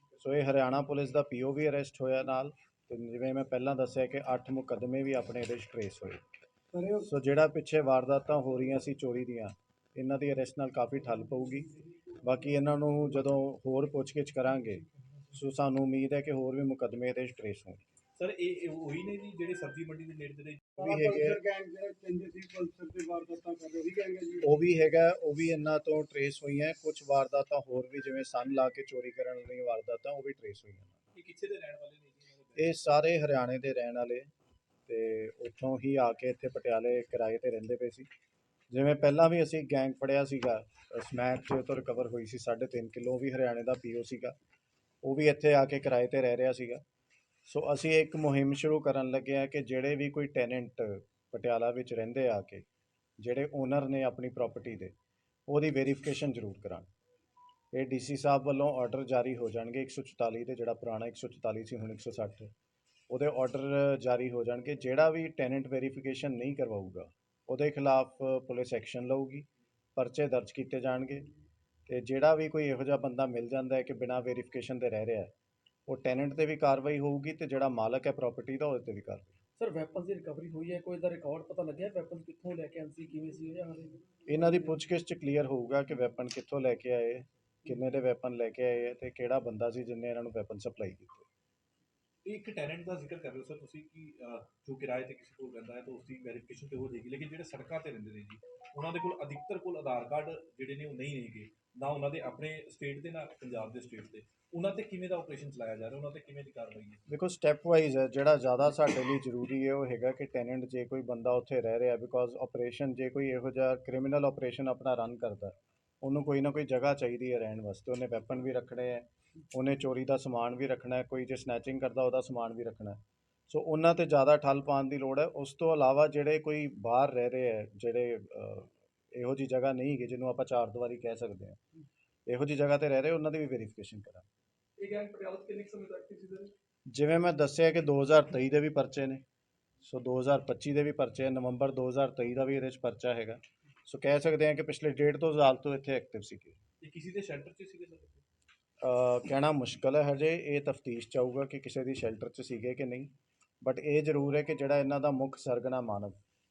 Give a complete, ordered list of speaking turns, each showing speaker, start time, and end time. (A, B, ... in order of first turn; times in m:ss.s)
0:00.2-0:06.2 A
0:06.9-0:11.7 A
0:12.2-0:17.8 A
0:18.2-0:20.6 B
0:20.8-0:21.4 A
0:20.8-0:24.5 C
0:24.4-0:30.9 A
0:31.2-0:32.9 B
0:32.6-0:34.3 A
0:34.9-0:38.1 A
0:38.7-0:44.4 A
0:45.0-0:46.8 A
0:47.5-0:52.6 A
0:53.2-0:54.9 A
0:55.5-0:56.9 A
0:57.7-1:02.5 A
1:03.1-1:11.3 A
1:11.9-1:15.3 A
1:15.9-1:19.4 A
1:19.6-1:24.0 D
1:24.3-1:31.3 A
1:32.2-1:47.0 B
1:47.1-2:03.0 A
2:03.5-2:11.6 A
2:12.3-2:14.3 A
2:14.8-2:16.5 D
2:16.9-2:19.2 A
2:19.8-2:26.6 A
2:26.8-2:28.2 B
2:28.8-2:33.1 A
2:33.6-2:36.2 A